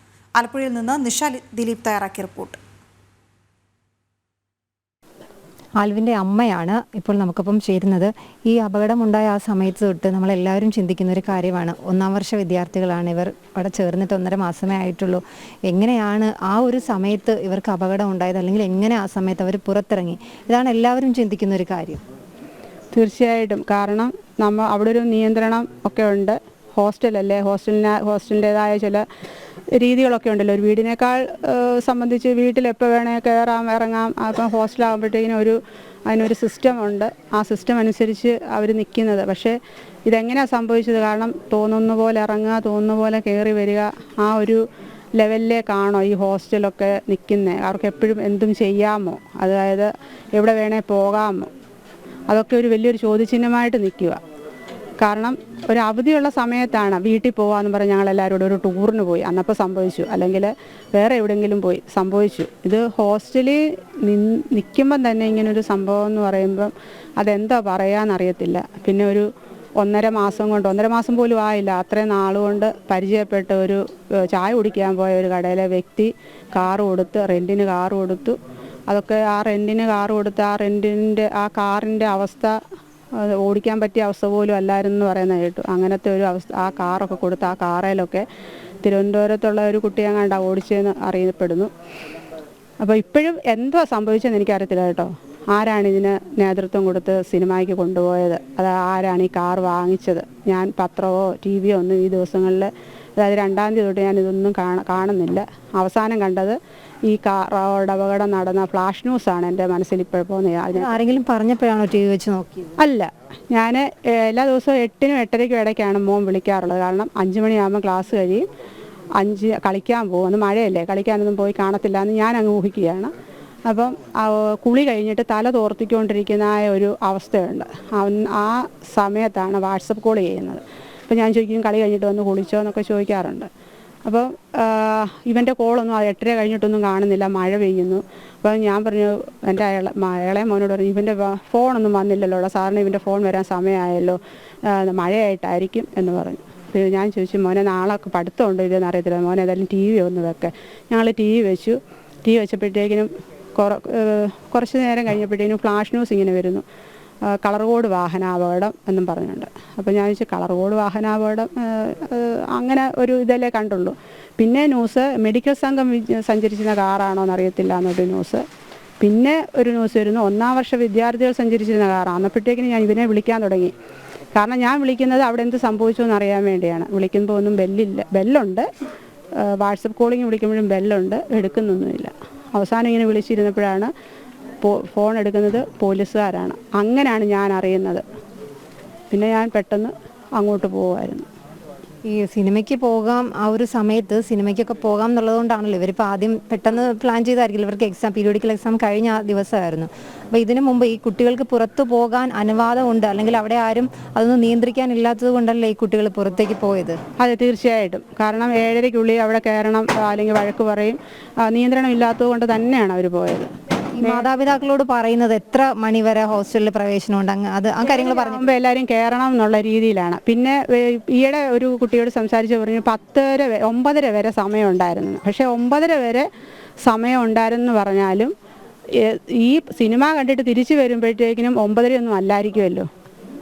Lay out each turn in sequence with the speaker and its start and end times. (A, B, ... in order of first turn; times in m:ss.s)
0:00.4-0:02.6 A
0:05.8-0:22.0 B
0:22.9-0:29.0 C
0:29.8-0:44.6 C
0:45.2-0:51.5 C
0:52.3-0:54.2 C
0:55.0-1:09.3 C
1:09.8-1:22.6 C
1:23.2-1:28.3 C
1:28.8-1:31.7 C
1:32.8-1:46.6 C
1:47.1-1:51.0 C
1:50.7-1:52.8 B
1:52.8-1:58.5 C
1:59.2-2:03.1 C
2:03.7-2:13.5 C
2:14.0-2:36.6 C
2:37.3-2:48.4 C
2:49.0-2:53.7 C
2:54.3-2:58.7 C
2:59.4-3:03.9 C
3:04.6-3:08.0 C
3:09.1-3:11.3 C
3:12.1-3:27.0 B
3:27.2-3:34.3 C
3:34.0-3:38.5 B
3:37.9-3:46.3 C
3:46.8-3:48.3 C
3:48.9-3:52.9 C